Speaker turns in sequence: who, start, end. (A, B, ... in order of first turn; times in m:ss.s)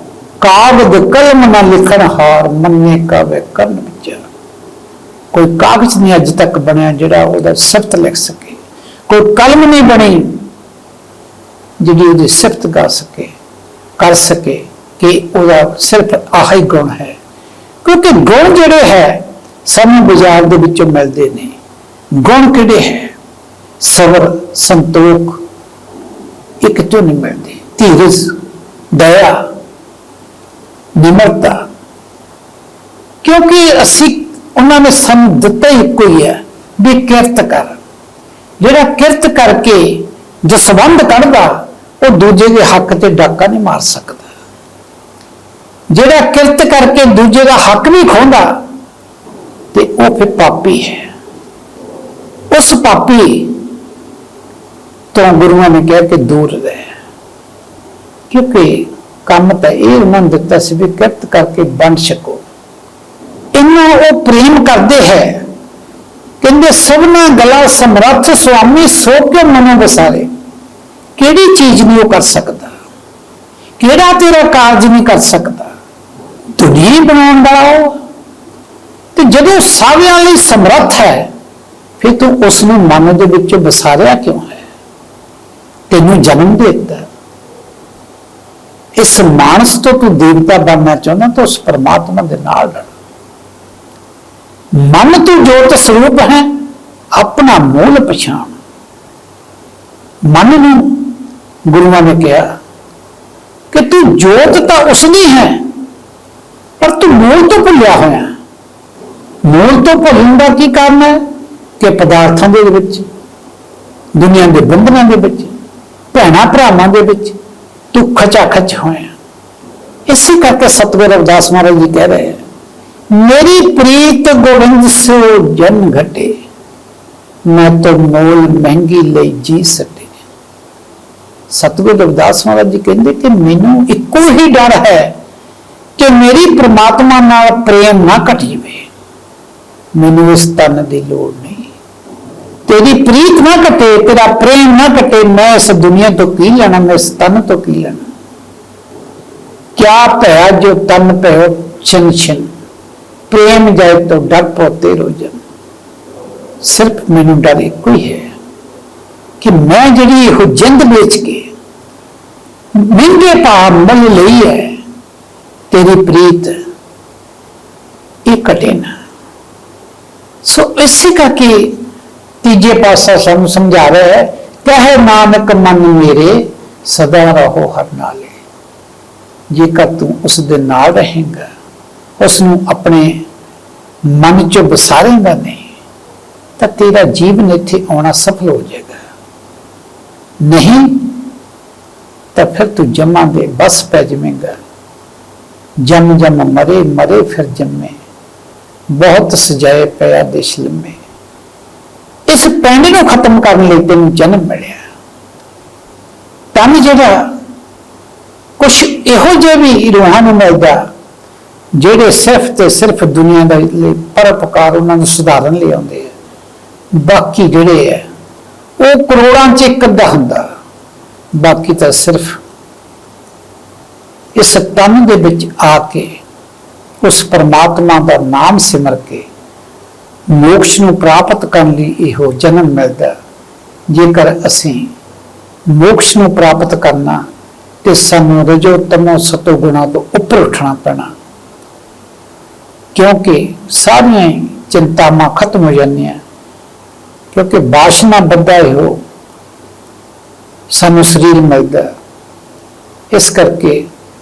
0:00.4-0:04.2 A
0:05.3-0:10.5 A
0:11.8-0:13.3 A
0:14.0-0:17.2 A
0:17.8-0:21.6 A
0:22.2-0:23.2 A
0:23.8-0:25.4 A
0:26.6-0:28.4 A
0:28.9-0:29.5 A
0:31.0-0:31.7 A
0:33.2-0:37.8 A
0:38.6-0:44.2 A
0:45.9-0:48.6 A
0:49.7-0:51.1 A
0:52.5-0:53.6 A
0:55.1-0:56.9 A
0:58.3-1:02.4 A
1:03.5-1:05.5 A
1:06.4-1:10.3 A
1:11.2-1:12.7 A
1:13.8-1:15.7 A
1:16.6-1:18.0 A
1:19.2-1:21.3 A
1:22.0-1:24.6 A
1:25.9-1:27.1 A
1:29.0-1:32.9 A
1:34.8-1:36.6 A
1:37.2-1:38.5 A
1:40.3-1:41.2 A
1:41.7-1:42.6 A
1:43.7-1:45.7 A
1:46.8-1:48.3 A
1:49.4-1:51.2 A
1:51.8-1:53.0 A
1:54.2-1:55.5 A
1:56.1-1:57.4 A
1:57.9-1:59.1 A
2:00.1-2:02.4 A
2:03.1-2:06.4 A
2:07.5-2:10.1 A
2:11.5-2:15.2 A
2:16.0-2:18.9 A
2:20.0-2:21.7 A
2:22.7-2:28.0 A
2:29.8-2:32.5 A
2:33.3-2:35.4 A
2:36.6-2:38.3 A
2:39.4-2:41.5 A
2:42.8-2:44.8 A
2:45.7-2:46.6 A
2:48.3-2:49.0 A
2:50.4-2:51.8 A
2:52.4-2:58.4 A
2:59.5-3:01.5 A
3:02.2-3:03.2 A
3:04.0-3:05.7 A
3:06.6-3:09.0 A
3:10.4-3:11.2 A
3:12.3-3:14.6 A
3:15.9-3:18.0 A
3:18.9-3:21.0 A
3:22.3-3:24.8 A
3:26.5-3:27.3 A
3:28.6-3:30.9 A
3:31.8-3:36.1 A
3:36.9-3:38.1 A
3:38.8-3:40.5 A
3:41.4-3:42.4 A
3:44.4-3:46.2 A
3:47.0-3:49.3 A
3:50.3-3:53.2 A
3:53.9-3:54.9 A
3:55.7-3:57.2 A
3:57.8-4:01.1 A
4:03.0-4:06.2 A
4:07.3-4:09.0 A
4:10.7-4:11.9 A
4:13.1-4:13.9 A